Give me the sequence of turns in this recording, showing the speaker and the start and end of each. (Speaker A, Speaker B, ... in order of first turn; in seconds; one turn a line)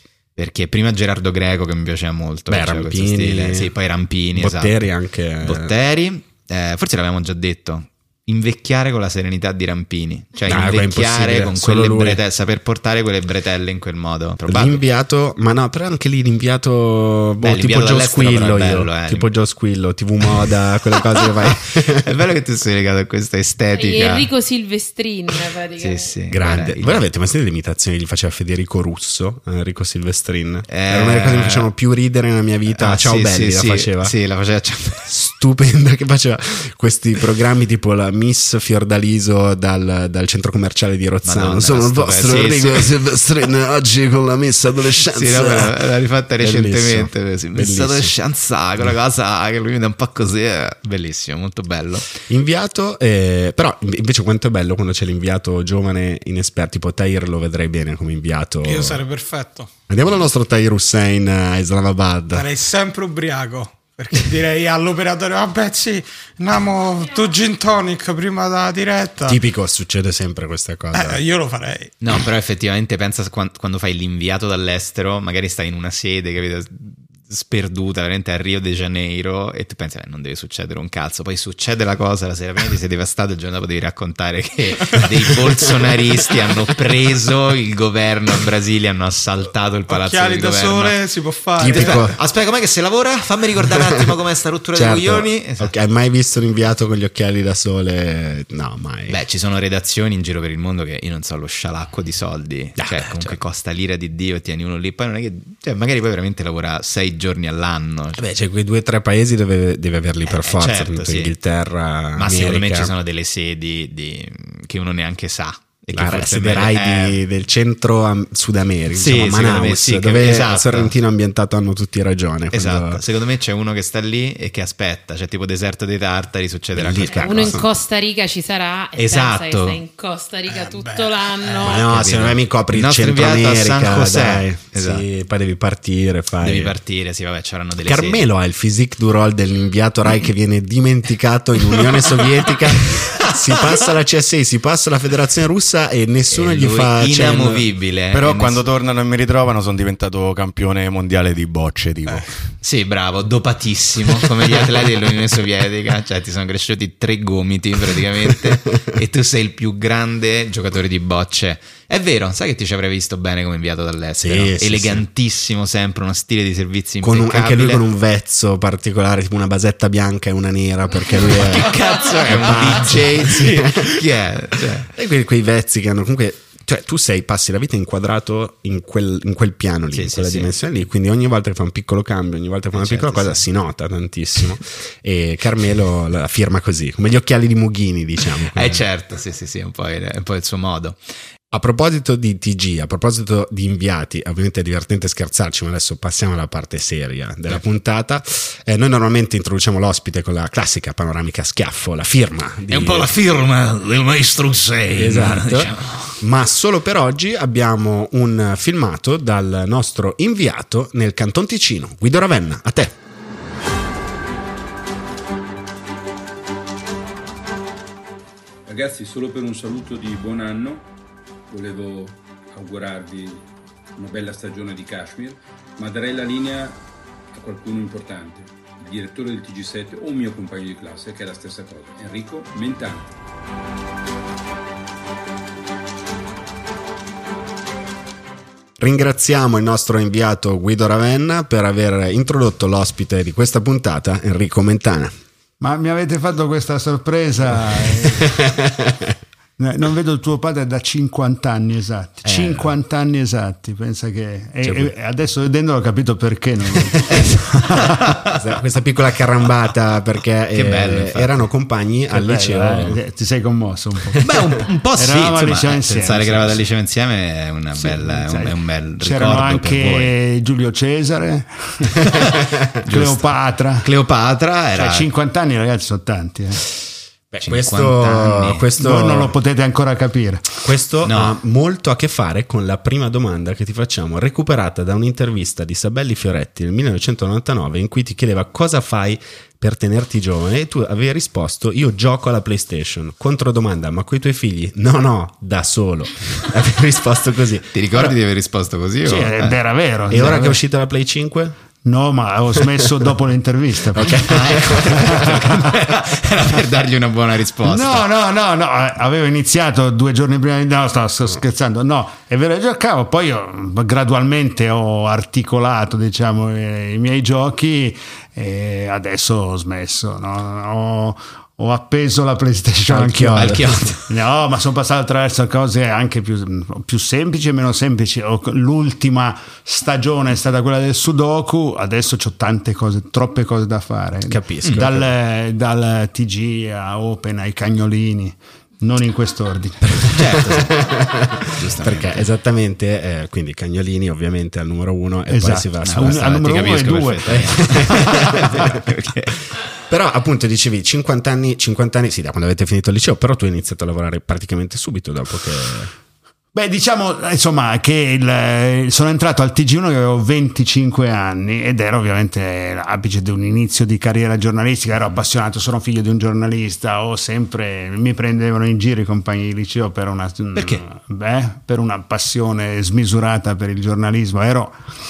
Speaker A: 0.4-4.8
Speaker B: 2.5-3.7
Speaker B: 4.3-5.7
Speaker A: 5.4-14.8
Speaker B: 10.4-12.2
Speaker B: 14.4-22.1
Speaker A: 17.4-19.3
Speaker A: 22.0-24.3
Speaker C: 23.7-26.1
Speaker A: 25.8-27.0
Speaker B: 26.3-34.1
Speaker A: 30.7-31.7
Speaker A: 32.7-35.1
Speaker B: 35.0-45.8
Speaker A: 41.2-42.9
Speaker A: 45.1-52.0
Speaker B: 46.4-48.1
Speaker B: 52.3-59.0
Speaker D: 58.6-59.7
Speaker B: 59.9-62.5
Speaker D: 62.3-69.4
Speaker B: 69.3-71.2
Speaker D: 70.9-71.9
Speaker A: 72.0-91.0
Speaker D: 89.9-92.1
Speaker B: 91.6-92.1
Speaker A: 91.7-95.7
Speaker B: 94.7-99.2
Speaker A: 99.1-108.2
Speaker B: 102.8-103.4
Speaker B: 108.2-112.9
Speaker A: 110.2-111.3
Speaker A: 112.2-117.2
Speaker B: 115.9-123.0
Speaker A: 118.9-120.9
Speaker A: 122.5-127.6
Speaker B: 126.8-127.7
Speaker C: 127.2-131.8
Speaker A: 129.0-129.8
Speaker D: 130.7-131.1
Speaker B: 131.6-136.7
Speaker A: 131.8-135.0
Speaker A: 136.4-138.2
Speaker B: 137.8-147.7
Speaker A: 143.0-143.8
Speaker A: 146.3-148.6
Speaker E: 148.1-152.4
Speaker A: 152.6-167.8
Speaker B: 164.2-165.0
Speaker B: 167.0-174.1
Speaker A: 171.2-174.9
Speaker B: 174.9-188.8
Speaker A: 179.9-180.5
Speaker A: 182.7-183.4
Speaker A: 188.5-191.0
Speaker B: 191.5-203.1
Speaker A: 202.7-206.2
Speaker B: 204.9-212.9
Speaker F: 218.7-220.9
Speaker F: 221.5-226.8
Speaker F: 227.3-233.1
Speaker B: 238.8-245.1
Speaker G: 245.6-248.5
Speaker B: 248.4-249.1
Speaker G: 249.6-258.0
Speaker B: 252.2-252.7
Speaker B: 254.6-254.9
Speaker B: 258.3-263.0
Speaker A: 260.5-261.4
Speaker G: 262.1-264.2
Speaker A: 264.2-270.1
Speaker G: 264.9-266.6
Speaker G: 267.8-272.2
Speaker A: 272.9-273.2
Speaker G: 272.9-273.9
Speaker A: 273.8-275.1
Speaker G: 274.7-276.7
Speaker B: 277.3-279.3
Speaker A: 277.4-278.7
Speaker G: 278.8-280.5
Speaker B: 280.6-297.7
Speaker A: 281.1-281.4
Speaker A: 297.7-299.6
Speaker G: 299.0-300.6
Speaker B: 300.1-301.6
Speaker G: 301.8-304.3
Speaker B: 303.9-305.8
Speaker A: 304.2-308.0
Speaker G: 305.0-305.7
Speaker G: 307.6-340.1
Speaker B: 322.9-323.9
Speaker A: 323.4-324.0
Speaker B: 334.3-335.1
Speaker A: 340.1-340.8
Speaker B: 340.2-346.6
Speaker A: 341.6-342.2
Speaker G: 345.3-348.2
Speaker A: 345.8-349.4
Speaker B: 347.3-348.8
Speaker B: 349.9-355.9
Speaker G: 356.5-374.8
Speaker A: 370.5-370.8